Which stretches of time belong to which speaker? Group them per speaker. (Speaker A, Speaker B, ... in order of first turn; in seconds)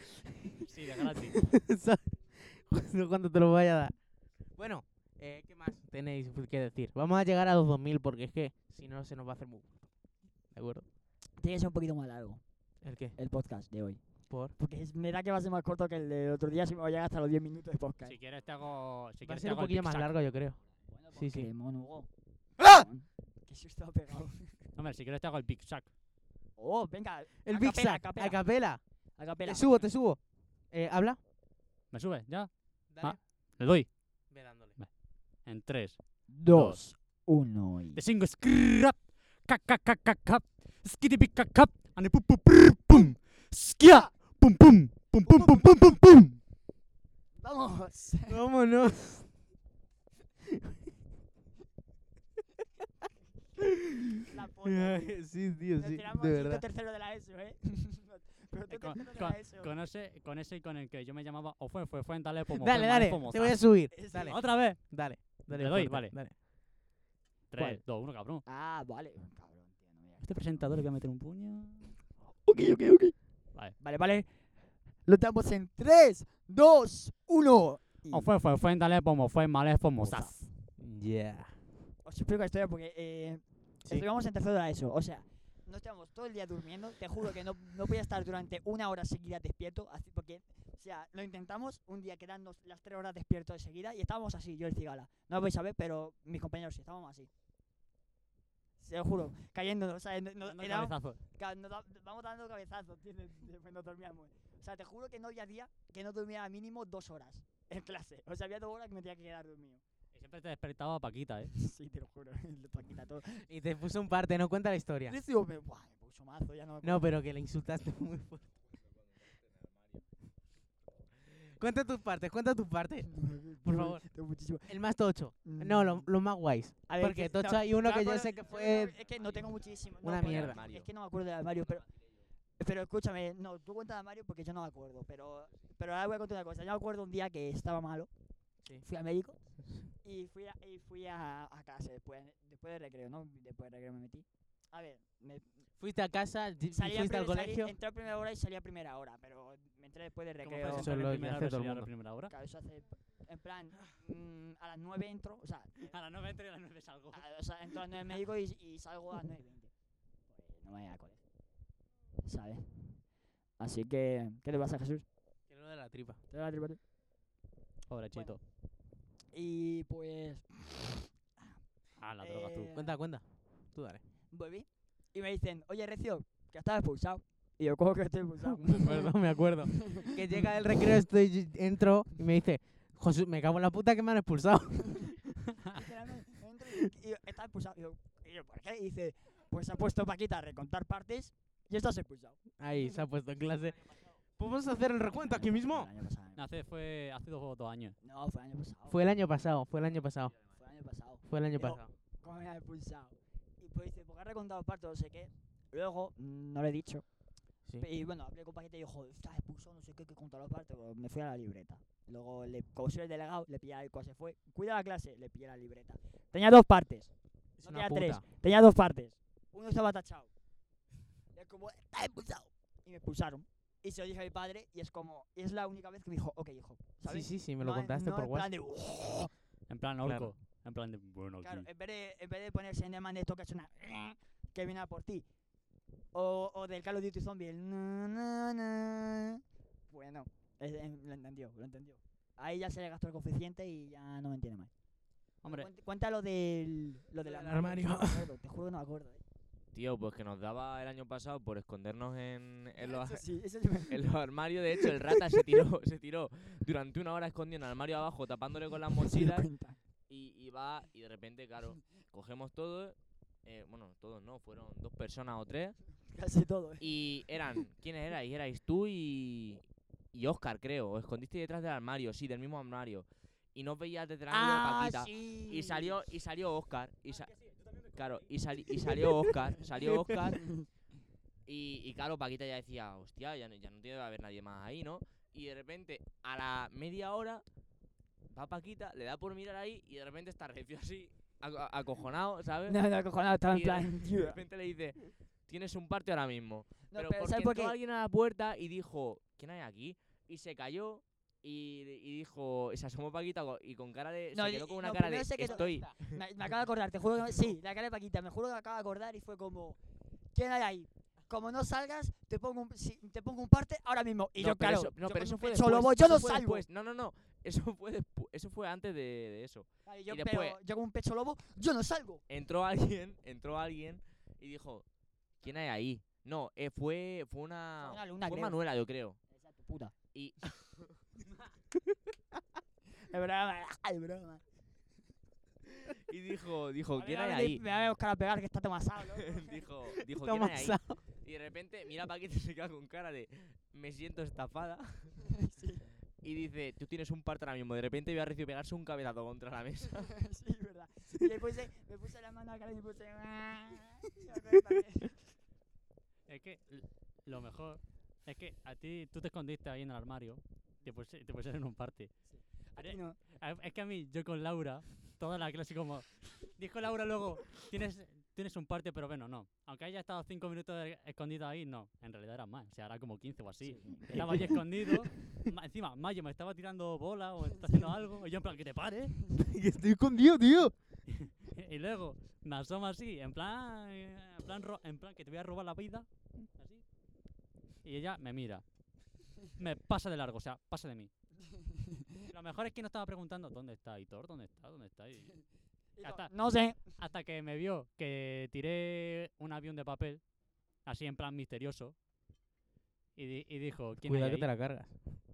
Speaker A: 0.6-1.5, 18.1-20.2, 24.8-25.9, 31.9-33.9, 35.4-36.8, 38.0-46.4, 58.7-66.2, 67.5-68.4, 70.2-72.0, 78.1-80.5, 100.4-101.2, 110.1-111.5, 150.4-152.3, 155.9-157.2, 167.9-168.4, 172.0-172.7, 196.4-198.0, 229.7-231.7, 245.4-245.7, 356.3-362.1, 362.8-379.2, 381.1-386.9, 387.8-388.6, 389.5-391.1, 392.3-395.4, 396.0-400.3, 400.8-401.9, 403.2-404.5
Speaker B: 1.4-9.9, 10.5-10.9, 12.8-13.2, 14.3-14.5, 19.2-20.6, 21.1-21.5, 22.6-22.9, 27.4-28.8, 29.4-31.2, 32.9-33.2, 34.3-34.8, 48.3-49.4, 54.7-56.6, 62.5-66.3, 80.8-81.6, 113.5-115.2, 116.8-118.5, 121.5-124.1, 124.7-129.0, 130.0-130.7, 145.8-147.7, 150.8-151.9, 165.5-166.2, 172.8-174.0, 178.5-185.5, 192.6-195.9, 198.9-200.4, 201.2-201.9, 217.6-218.2, 227.1-228.5, 230.0-230.3, 247.2-248.3, 305.4-306.1, 340.1-341.0, 374.1-375.2, 379.3-380.7, 404.0-405.2
Speaker C: 11.4-18.2, 20.9-24.6, 26.6-28.4, 29.2-29.7, 36.3-38.0, 43.8-44.1, 45.3-45.9, 47.4-48.4, 54.3-59.7, 63.9-64.5, 68.5-70.8, 72.5-73.1, 73.8-74.3, 75.0-78.3, 80.0-80.5, 82.0-97.3, 98.8-109.8, 111.5-113.5, 115.1-117.1, 123.1-124.8, 125.3-126.1, 126.9-131.9, 132.6-145.5, 146.7-151.0, 152.3-155.9, 157.1-159.7, 160.3-161.2, 162.2-163.1, 163.6-165.1, 166.3-166.8, 168.1-168.4, 169.3-171.6, 172.2-173.0, 174.3-179.2, 179.7-180.5, 185.7-192.4, 195.2-196.4, 198.0-199.0, 200.4-207.1, 207.8-217.1, 217.6-220.3, 221.3-229.3, 231.4-235.3, 236.1-244.7, 245.4-249.2, 252.8-254.2, 254.8-255.4, 259.0-259.8, 266.1-267.0, 274.3-276.0, 292.7-294.4, 296.9-297.8, 304.3-309.8, 310.3-316.6, 319.9-322.2, 327.8-328.6, 329.3-329.9, 333.0-334.4, 336.9-339.7, 345.4-345.9, 350.2-355.2, 362.3-363.2, 373.6-374.1, 396.0-396.8
Speaker D: 130.2-130.9, 249.7-259.5, 260.1-265.8, 266.8-280.6, 281.5-287.4, 288.3-292.8, 293.5-306.1, 314.4-320.6, 322.3-324.9, 325.4-329.2, 330.1-331.0, 335.9-337.6, 339.2-345.2, 346.2-350.1